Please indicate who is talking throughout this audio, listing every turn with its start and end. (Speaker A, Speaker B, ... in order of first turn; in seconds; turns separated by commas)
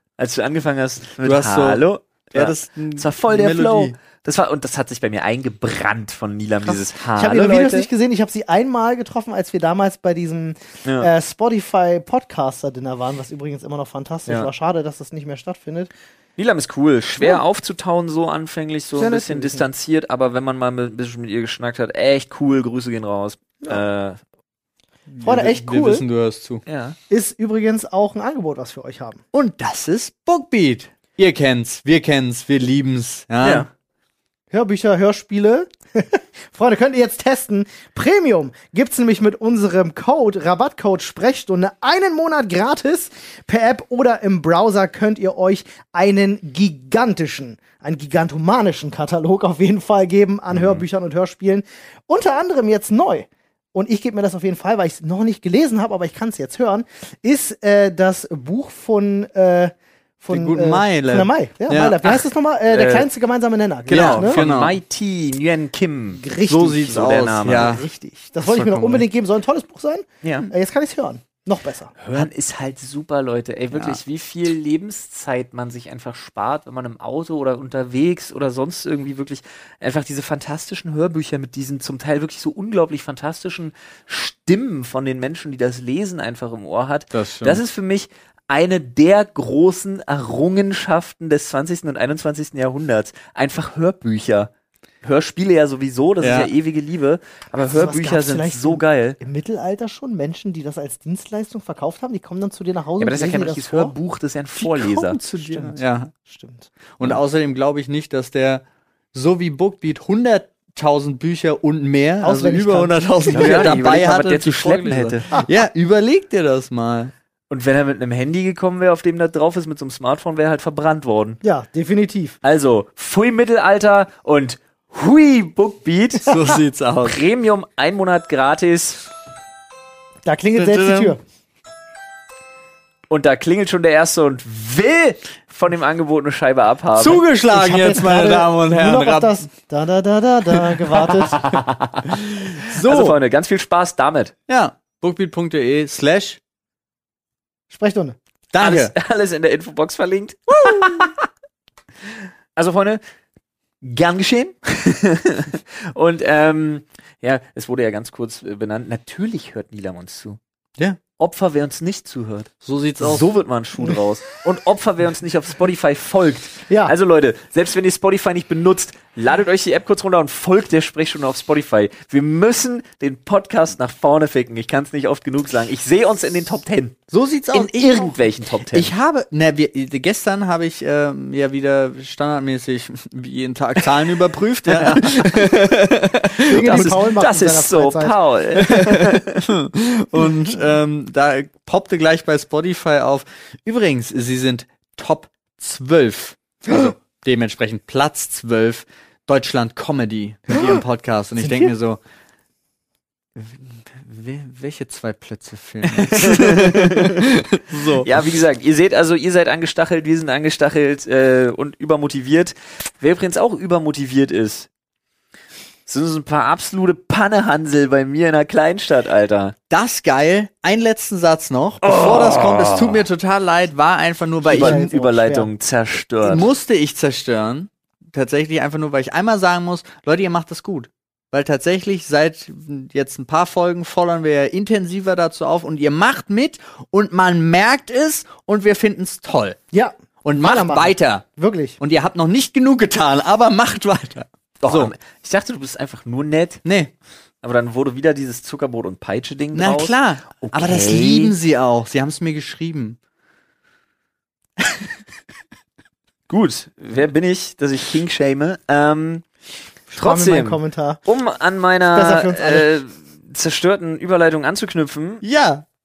Speaker A: 0.2-7.9, Speaker B: 1.2-3.9, Speaker C: 7.2-15.9, Speaker A: 10.8-11.1, Speaker A: 16.4-24.2, Speaker C: 18.9-19.7, Speaker C: 25.1-26.0, Speaker B: 25.2-26.6, Speaker A: 26.6-27.0, Speaker C: 27.1-29.2, Speaker B: 29.3-33.7, Speaker A: 33.4-33.7, Speaker C: 34.5-64.4, Speaker A: 50.5-50.8, Speaker B: 60.3-62.0, Speaker A: 62.0-63.1, Speaker B: 63.9-64.8, Speaker A: 63.9-67.8, Speaker C: 66.2-66.7, Speaker B: 66.5-67.8, Speaker C: 67.5-72.0, Speaker B: 68.4-69.0, Speaker A: 70.2-70.5, Speaker A: 72.0-94.5, Speaker B: 87.1-87.6, Speaker A: 95.0-99.2, Speaker B: 96.2-96.5, Speaker C: 97.7-103.9, Speaker A: 103.0-105.2, Speaker B: 104.6-106.1, Speaker C: 105.2-106.7, Speaker B: 107.0-117.1, Speaker C: 112.2-113.7, Speaker A: 113.3-115.3, Speaker A: 117.5-121.4, Speaker C: 121.4-122.4, Speaker A: 122.4-129.0, Speaker B: 126.2-127.2, Speaker C: 130.2-131.2, Speaker B: 130.5-131.2, Speaker A: 133.1-137.2, Speaker B: 136.9-139.4, Speaker C: 137.5-141.4, Speaker A: 141.3-144.3, Speaker B: 142.6-143.2, Speaker B: 144.5-146.4, Speaker C: 147.7-148.2, Speaker B: 148.5-148.9, Speaker A: 148.6-151.2, Speaker A: 152.6-153.0, Speaker A: 153.8-160.4, Speaker A: 161.2-178.9, Speaker B: 162.6-163.3, Speaker C: 166.7-166.9, Speaker B: 177.1-178.2, Speaker B: 178.7-187.0, Speaker A: 184.7-185.5, Speaker A: 186.4-189.5, Speaker C: 186.5-188.2, Speaker B: 188.6-202.0, Speaker C: 201.4-201.7, Speaker B: 203.3-208.2, Speaker A: 205.9-207.3, Speaker A: 207.9-214.7, Speaker A: 215.9-219.5, Speaker B: 219.7-224.9, Speaker A: 221.8-223.0, Speaker C: 224.5-225.5, Speaker A: 224.5-226.5, Speaker B: 226.2-239.6, Speaker C: 239.7-241.8, Speaker B: 240.2-241.2, Speaker B: 241.8-244.9, Speaker A: 244.6-246.6, Speaker B: 246.6-246.9, Speaker A: 247.4-251.3, Speaker B: 249.5-253.0, Speaker A: 256.3-259.2, Speaker C: 259.9-261.0, Speaker A: 259.9-265.2, Speaker C: 261.9-262.7, Speaker B: 265.2-265.6